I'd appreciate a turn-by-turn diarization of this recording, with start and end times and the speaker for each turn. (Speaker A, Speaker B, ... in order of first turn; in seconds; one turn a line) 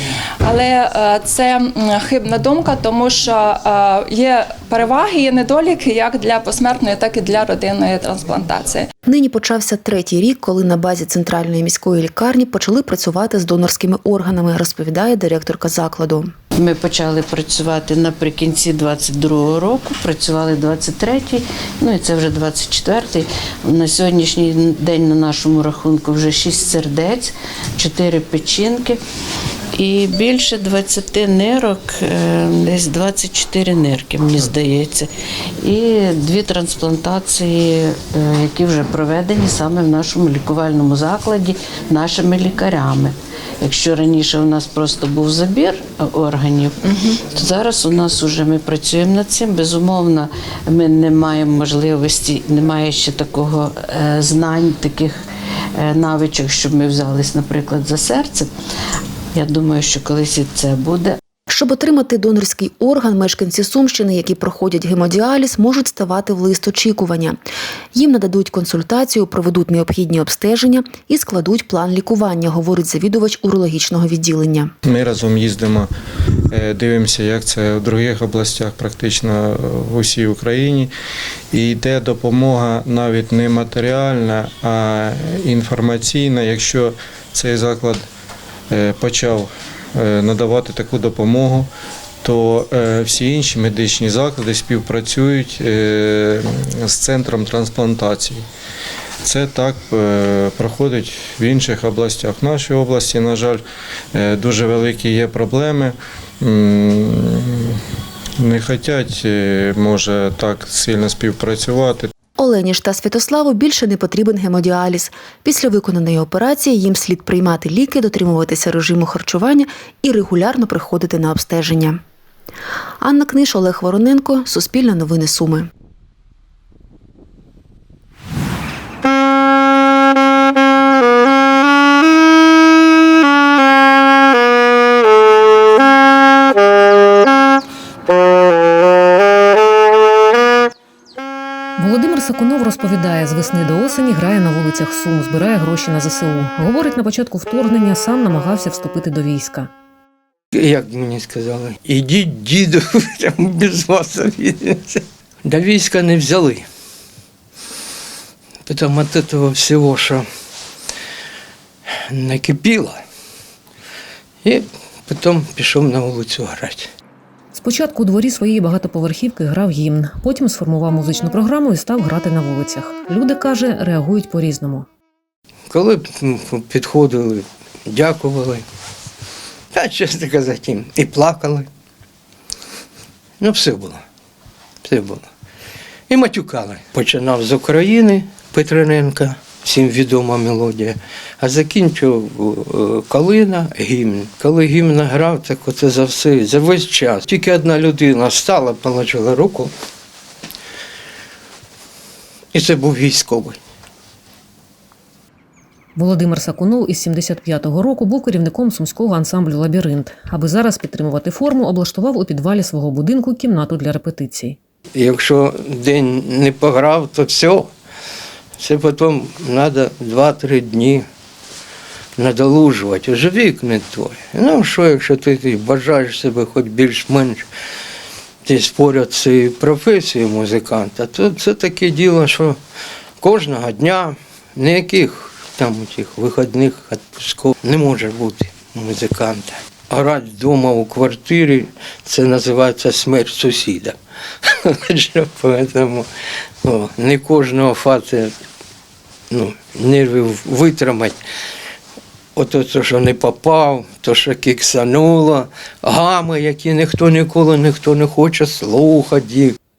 Speaker A: 0.4-8.8
Speaker B: 9.1-16.3
Speaker C: 16.5-29.0
Speaker C: 29.8-35.1
Speaker C: 35.6-55.2
Speaker C: 55.8-58.5
Speaker C: 59.3-61.2
Speaker B: 61.5-67.4
Speaker B: 67.9-74.7
Speaker D: 74.8-75.9
Speaker D: 76.5-80.9
Speaker D: 81.5-88.0
Speaker D: 88.7-91.7
Speaker D: 92.2-98.4
Speaker D: 99.2-103.6
Speaker D: 104.1-107.8
Speaker D: 108.4-112.1
Speaker B: 112.4-122.0
Speaker B: 123.0-125.7
Speaker E: 141.8-149.7
Speaker F: 150.5-156.6
Speaker F: 158.7-160.2
Speaker F: 162.1-163.0
Speaker F: 164.4-166.9
Speaker E: 167.5-174.9
Speaker F: 175.7-178.6
Speaker F: 179.7-181.7
Speaker F: 183.4-184.0
Speaker F: 184.8-185.3
Speaker F: 186.1-199.7
Speaker F: 202.5-203.6
Speaker E: 205.9-214.6
Speaker F: 214.9-217.7
Speaker F: 218.6-221.1
Speaker F: 222.2-227.4
Speaker F: 228.4-232.6
Speaker F: 233.2-246.1
Speaker F: 246.6-248.3
Speaker F: 249.3-251.2
Speaker F: 252.3-259.6